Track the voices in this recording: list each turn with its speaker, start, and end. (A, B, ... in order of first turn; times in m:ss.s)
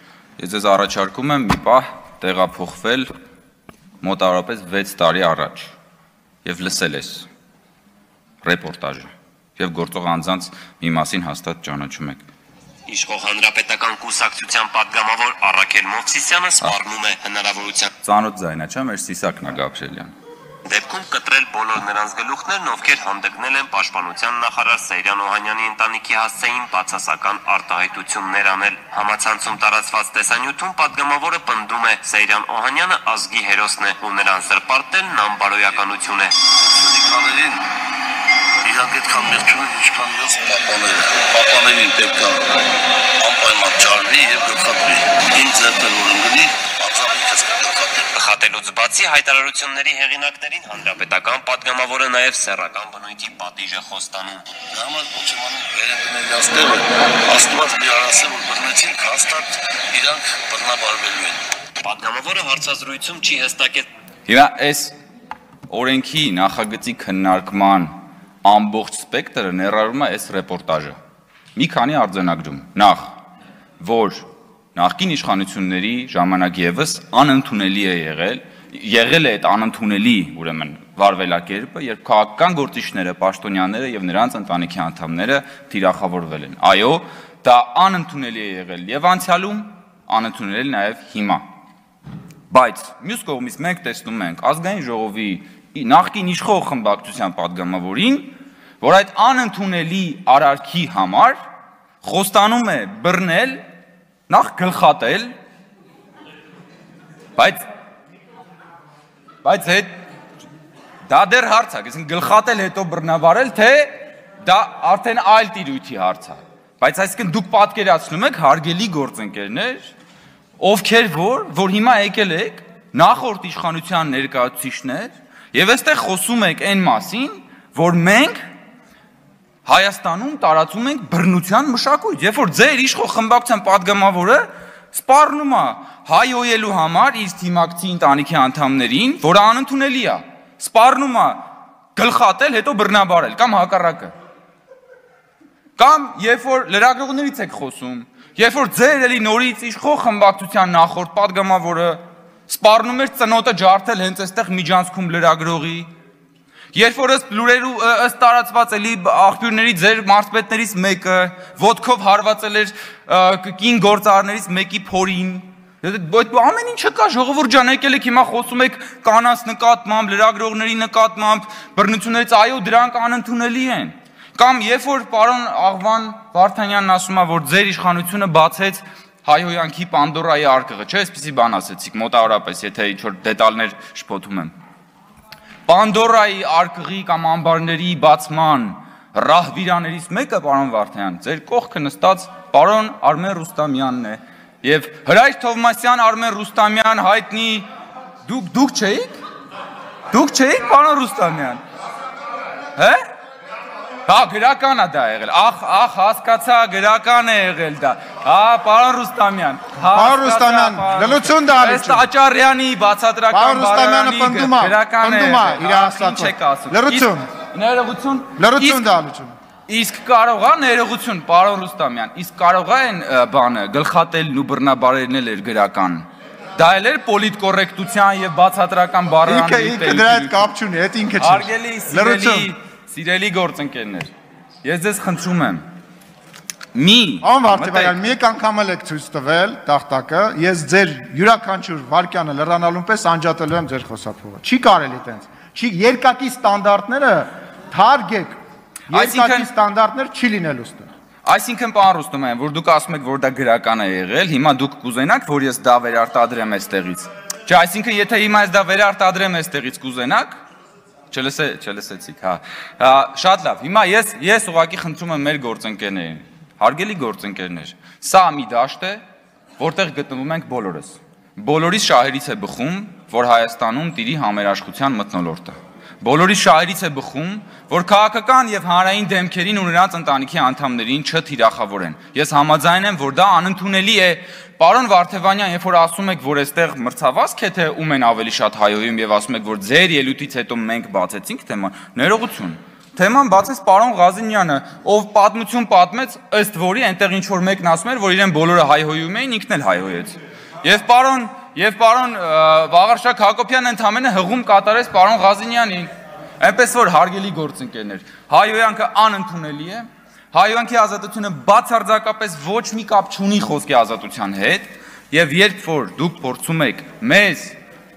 0:00.4-0:03.1 A
0:04.0-0:05.7 A
0:06.4-0:07.3 A
0:08.4-0:12.2 A
0:12.9-0:17.9 B
0:18.0-0:20.1 A
0:20.7-0:36.3 B
0:36.5-0:37.6 C
0:38.6-0:48.1 C
0:48.1-0:54.5 B
0:54.7-1:01.4 C
1:01.8-1:03.9 B
1:04.3-1:04.9 A
1:05.7-1:07.9 A
1:08.4-1:11.0 A
1:11.6-1:13.1 A
1:13.8-1:31.4 A
1:32.5-1:41.4 A
1:42.0-1:43.6 A
1:44.3-1:45.3 A
1:49.4-1:49.9 A
1:51.1-1:59.9 A
2:00.6-2:08.4 A
2:09.6-2:21.4 A
2:21.9-2:24.1 A
2:25.8-2:35.9 A
2:36.7-3:04.5 A
3:05.7-3:17.6 A
3:18.2-3:19.2 A
3:20.1-3:21.6 A
3:24.1-3:38.8 A
3:29.9-3:32.0 D
3:33.3-3:37.2 D
3:38.4-3:39.3 D
3:39.7-3:46.0 A
3:46.6-3:50.5 A
3:49.2-3:52.5 D
3:51.2-3:54.1 A
3:54.6-3:55.6 A
3:56.7-3:58.0 A
3:57.2-4:08.4 D
4:08.9-4:10.9 D
4:08.9-4:09.5 A
4:11.2-4:20.4 A
4:21.1-4:29.0 A
4:29.6-5:17.6 A